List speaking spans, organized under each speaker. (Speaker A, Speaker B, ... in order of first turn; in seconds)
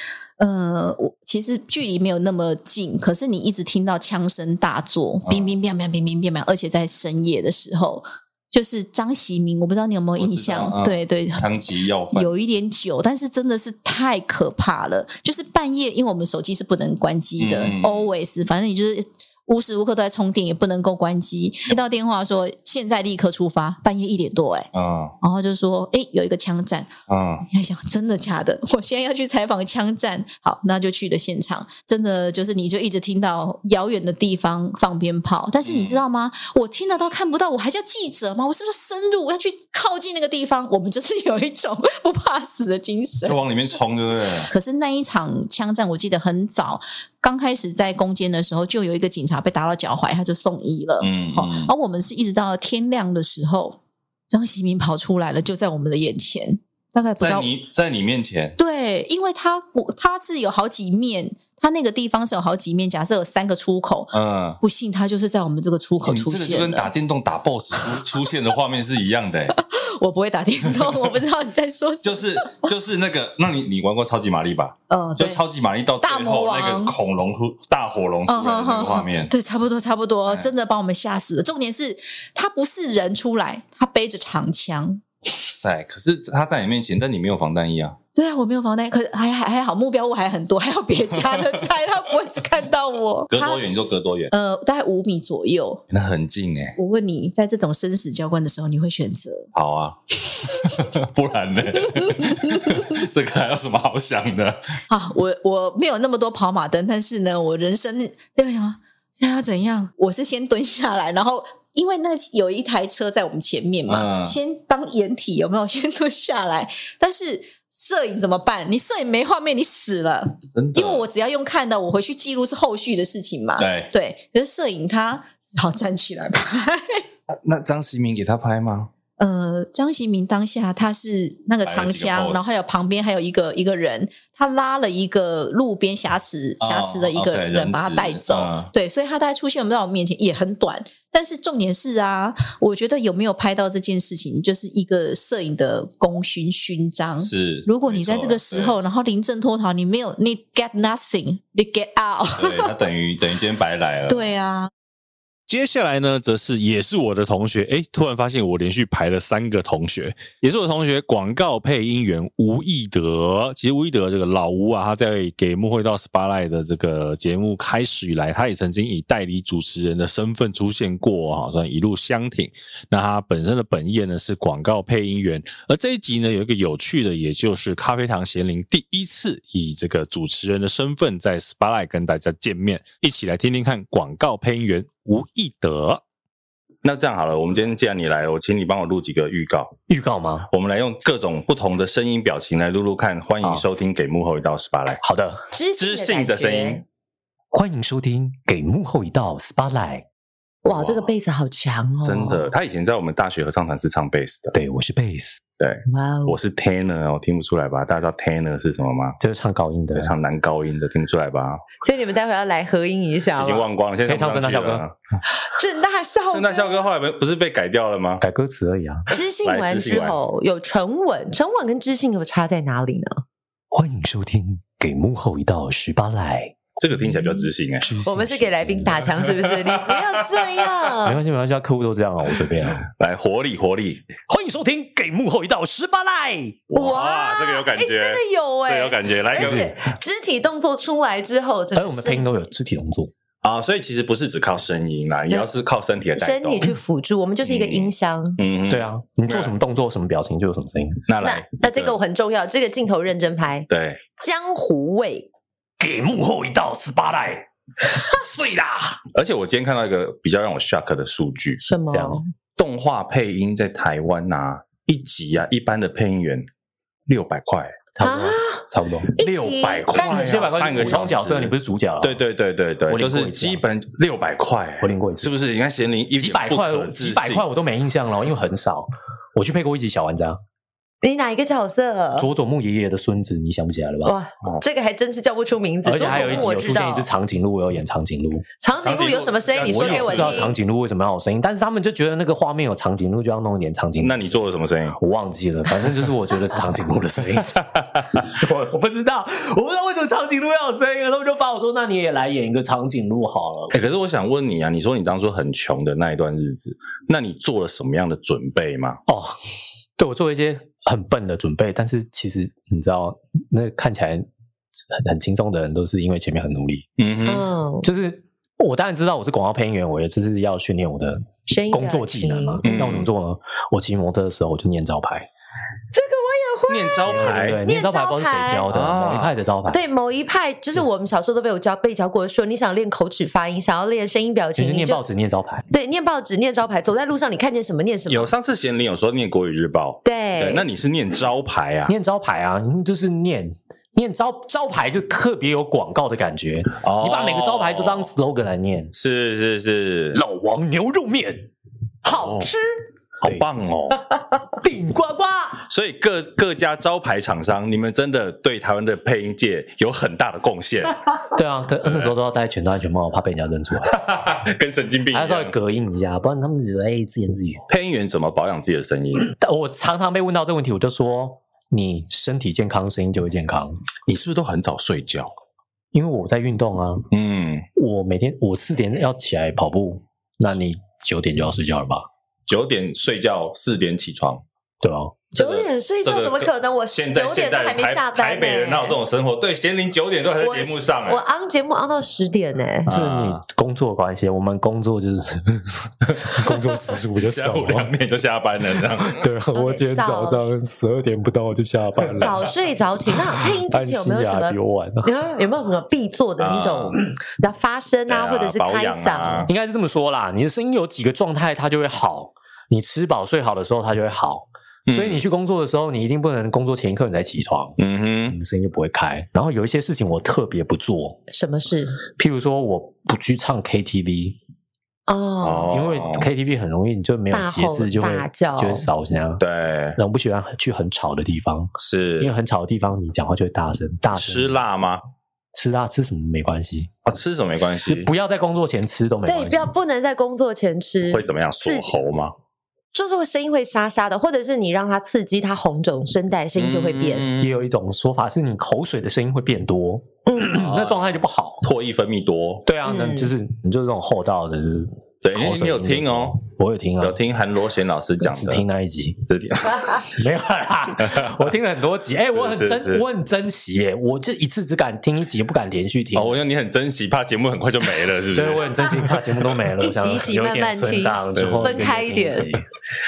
Speaker A: 0.4-24.7, 25.2-26.9, 27.5-43.4, 44.5-53.8, 54.3-57.5, 58.6-66.9, 69.5-72.7, 74.9-75.4, 76.0-76.9, 78.3-85.0, 88.2-93.6, 94.3-95.8, 96.8-99.5, 101.8-102.9, 104.9-127.0, 129.2-152.7, 154.1-154.7
Speaker B: 10.2-12.3, 17.4-18.1, 24.7-25.1, 27.1-27.4, 35.6-36.0, 43.2-44.5, 51.0-51.7, 57.2-58.6, 64.1-64.6, 66.0-69.5, 72.0-79.3, 85.4-88.0, 93.3-94.3, 95.9-96.8, 99.5-104.6, 113.9-114.4, 120.5-121.0, 123.6-123.9, 127.4-128.9, 131.6-132.5, 136.6-138.7, 147.2-148.8, 152.4-154.3, 186.8-189.7, 190.5-195.0, 195.8-196.8, 200.7-201.1, 202.0-204.5, 205.6-209.2, 209.9-211.6, 213.4-214.9, 216.3-218.2, 219.4-220.2, 226.8-227.9, 233.0-234.1, 236.7-239.7, 243.4-246.7, 247.4-249.5, 251.1-252.0, 253.7-254.0, 259.1-261.6, 262.6-266.4, 267.1-267.8, 269.2-277.4, 286.0-286.5, 288.8-290.4, 294.0-295.0, 303.7-309.0, 317.0-317.5, 322.6-323.1, 326.7-327.6, 328.7-329.3, 338.1-341.9, 346.8-348.1, 348.9-350.2, 352.1-352.5, 353.2-354.0, 355.7-361.1, 361.8-362.1, 363.9-365.5, 367.7-369.3, 374.1-375.3, 377.1-377.6, 382.5-384.4, 385.4-391.2, 392.9-393.4, 397.1-399.2, 406.4-407.0, 408.1-409.5, 414.9-415.2, 417.8-418.4, 425.4-426.3, 429.4-430.0, 431.8-432.3, 434.1-435.0, 437.0-438.1, 441.1-442.3, 446.6-447.5, 450.4-451.0, 451.6-452.7, 455.2-456.4, 457.0-458.6, 459.2-460.1, 462.3-463.0, 466.1-469.2, 471.3-471.8
Speaker C: 155.5-186.0
Speaker D: 189.9-190.5, 195.0-195.4, 197.5-200.1, 204.5-205.4, 209.2-210.1, 214.1-214.8, 218.2-219.1, 223.7-226.6, 227.8-229.1, 231.0-232.8, 234.3-236.6, 239.3-239.7, 241.7-243.1, 248.7-251.1, 255.8-257.4, 258.1-259.0, 261.9-262.2, 267.9-269.2, 269.9-272.2, 272.9-273.6, 274.8-275.3, 276.1-280.4, 282.2-284.1, 285.8-288.4, 289.6-294.4, 294.9-303.8, 309.1-309.3, 310.0-314.3, 314.9-316.9, 317.8-325.3, 327.1-329.8, 334.6-335.6, 341.9-348.9, 350.1-351.5, 352.0-352.6, 354.6-355.6, 361.3-364.0, 365.1-367.6, 369.3-373.8, 375.9-377.1, 377.8-382.1, 384.8-385.2, 392.9-395.9, 396.4-397.8, 399.2-402.3, 403.7-405.1, 409.5-421.2, 422.1-424.4, 425.7-429.4, 429.9-434.6, 435.5-436.9, 437.9-439.7, 447.4-451.6, 452.6-457.2, 458.2-459.2, 460.0-466.4, 468.3-472.6
Speaker E: 195.5-196.8, 200.6-202.4, 205.9-206.3, 211.8-213.7, 215.5-216.9, 219.1-223.2, 228.0-231.2, 236.7-242.2, 246.2-248.4, 251.2-255.3, 261.6-262.2, 268.0-268.6, 269.2-271.1, 281.0-282.3, 284.0-287.1, 288.6-290.5, 317.2-317.9, 321.5-322.6, 325.9-328.6, 329.7-335.0, 335.7-338.3, 340.0-340.6, 385.3-389.0, 390.4-392.9, 399.5-400.5, 402.2-409.5, 421.3-422.0, 425.1-425.8, 427.3-428.9, 439.2-441.9, 442.9-447.2, 450.2-450.5, 452.8-453.3, 469.8-472.5